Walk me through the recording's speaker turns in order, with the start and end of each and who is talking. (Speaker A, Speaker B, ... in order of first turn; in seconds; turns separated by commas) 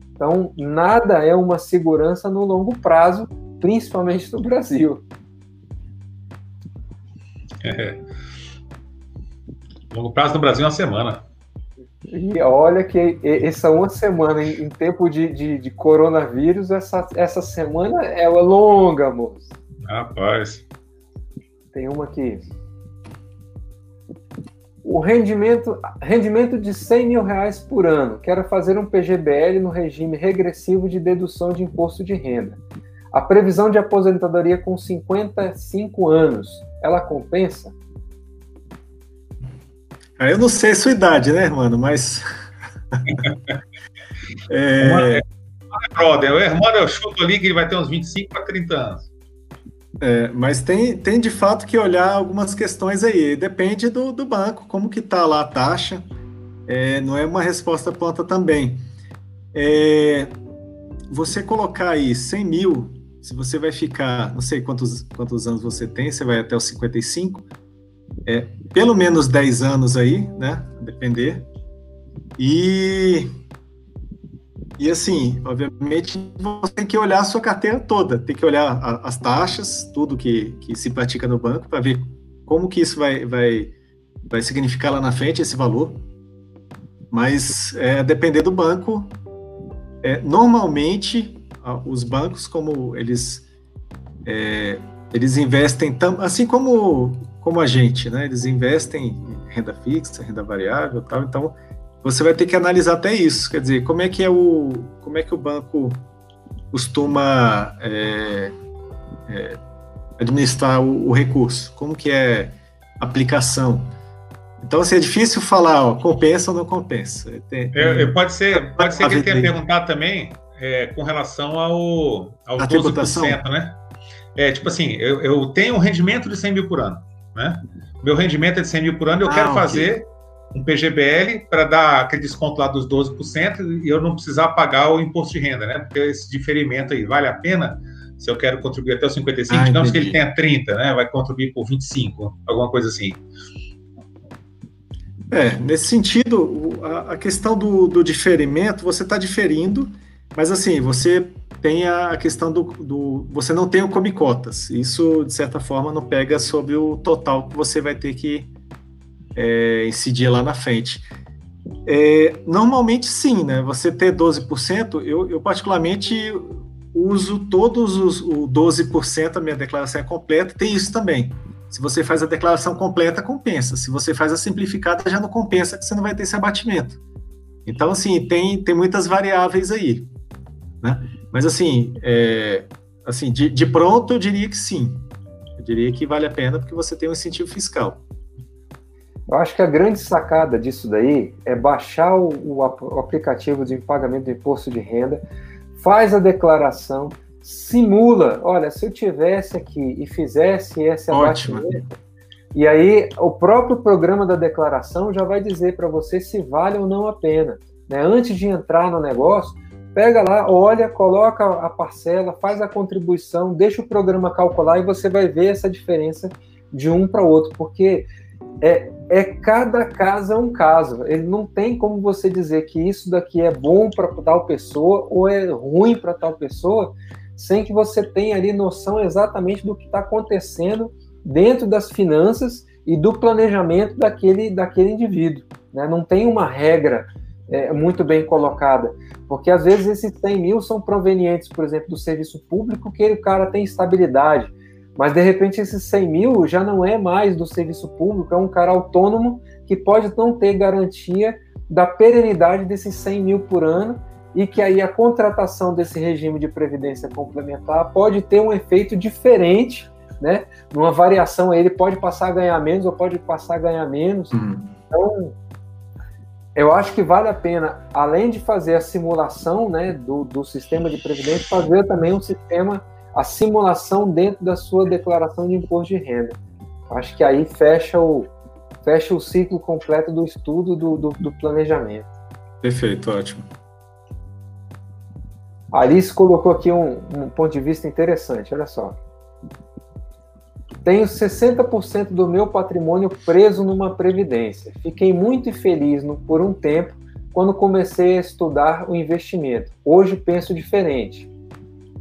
Speaker A: 0.2-5.0, Speaker B: 7.6-8.0, Speaker B: 9.9-11.2, Speaker A: 12.1-19.5, Speaker B: 19.9-20.6, Speaker A: 21.7-22.5, Speaker A: 24.8-32.6, Speaker A: 33.1-37.8, Speaker C: 40.2-42.3, Speaker C: 44.5-45.2, Speaker B: 44.8-49.1, Speaker C: 50.0-56.0, Speaker C: 56.7-58.9, Speaker C: 59.5-60.4, Speaker C: 61.1-67.5, Speaker C: 68.2-71.5, Speaker C: 72.4-73.3, Speaker C: 74.8-83.7, Speaker C: 84.3-86.0, Speaker C: 87.1-89.2, Speaker C: 90.0-93.5, Speaker C: 94.2-106.0, Speaker C: 106.7-108.5, Speaker C: 109.3-109.6, Speaker C: 110.2-113.9, Speaker C: 114.6-119.5, Speaker B: 117.7-123.8, Speaker C: 122.6-123.4, Speaker B: 124.4-143.2, Speaker C: 129.2-129.9, Speaker C: 139.5-140.2, Speaker C: 145.3-158.5, Speaker C: 159.3-161.1, Speaker C: 161.9-177.0, Speaker C: 177.7-180.1, Speaker C: 180.8-188.0, Speaker A: 189.3-195.2, Speaker A: 195.8-201.8, Speaker C: 201.1-201.9, Speaker A: 202.5-218.1, Speaker A: 218.6-265.4, Speaker C: 264.3-264.7, Speaker A: 266.6-276.4, Speaker A: 276.9-278.3, Speaker A: 278.8-282.1, Speaker C: 282.6-283.5, Speaker A: 285.7-289.0, Speaker A: 290.8-301.3